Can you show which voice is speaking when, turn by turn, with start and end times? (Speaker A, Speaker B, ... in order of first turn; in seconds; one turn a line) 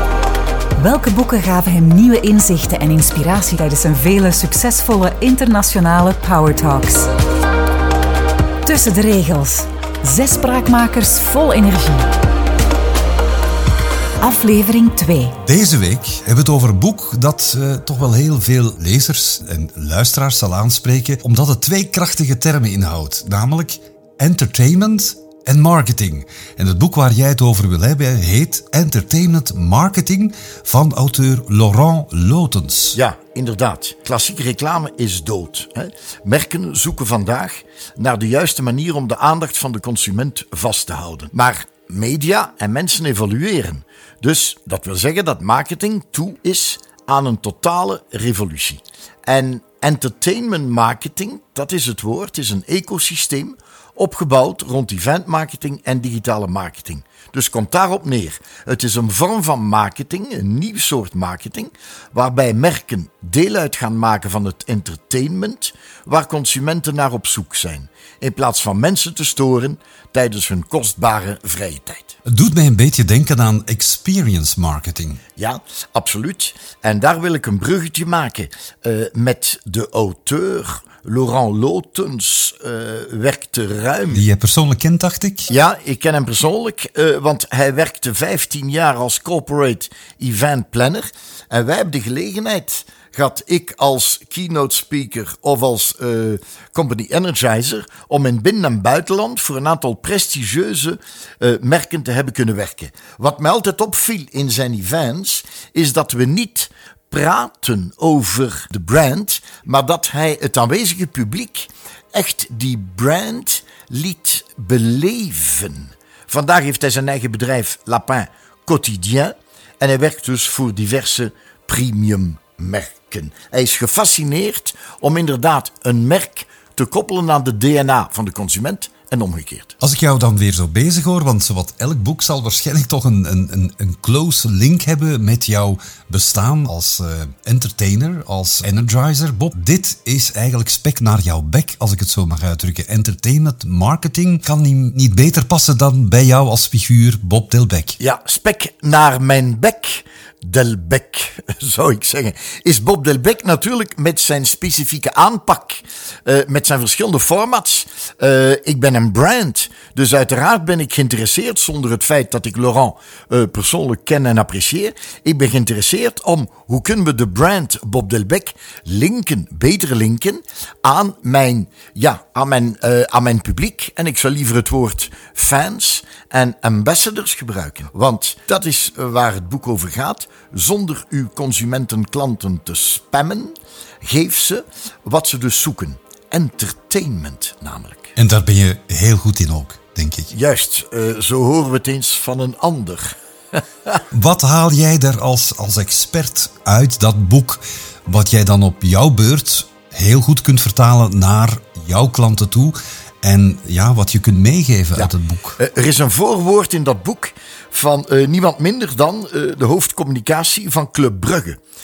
Speaker A: 0.8-7.1
Speaker A: 8.6-12.1
Speaker A: 14.2-15.4
Speaker B: 15.4-33.0
Speaker C: 32.9-72.2
Speaker B: 72.3-75.2
Speaker C: 75.4-84.2
Speaker B: 84.1-85.5
Speaker C: 85.5-129.8
Speaker B: 129.8-148.0
Speaker C: 148.0-188.1
Speaker B: 188.2-190.3
Speaker C: 190.3-193.6
Speaker B: 194.1-205.6
Speaker C: 204.9-211.6